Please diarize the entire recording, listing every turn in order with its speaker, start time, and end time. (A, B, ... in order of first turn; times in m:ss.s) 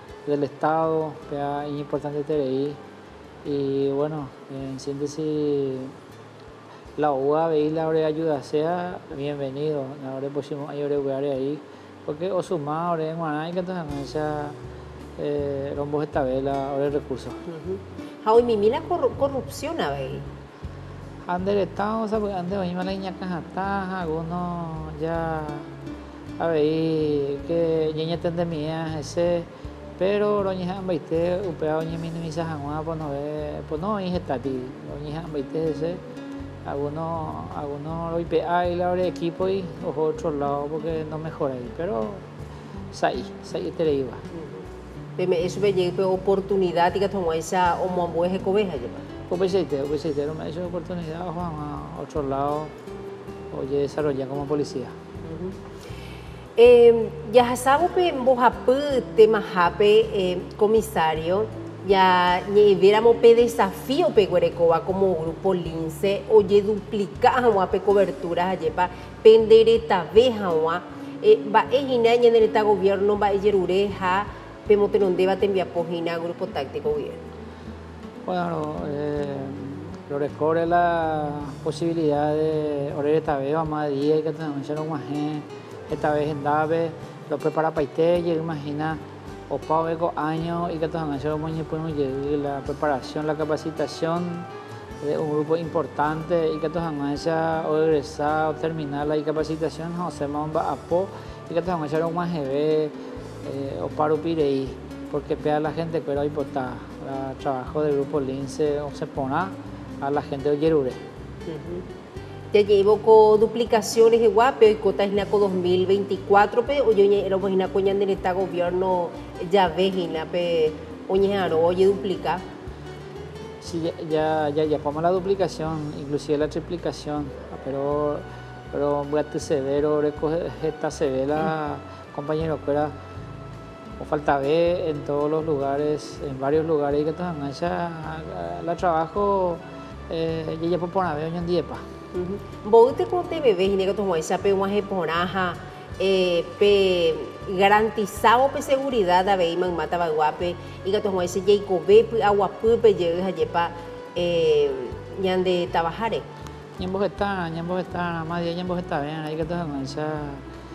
0:00.3-0:02.8 A
0:03.4-0:06.0 A
0:07.0-0:14.6 A
0:15.2-0:17.4 A
0:17.5-0:20.3 B
0:21.2-0:25.7 A
0:26.4-0:36.0 A
0:36.6-0:42.3 A
0:42.9-0:44.2 A
0:44.3-0:44.6 B
0:45.2-0:49.0 B
0:49.3-0:52.7 A
0:53.5-0:54.9 A
0:55.2-0:55.6 B
0:56.6-1:17.2 B
1:18.3-1:34.5 A
1:35.0-1:51.0 A
1:51.5-1:51.9 B
1:52.5-2:02.4 B
2:03.6-2:12.9 A
2:14.0-2:21.8 A
2:22.1-2:36.2 B
2:36.8-2:40.4 A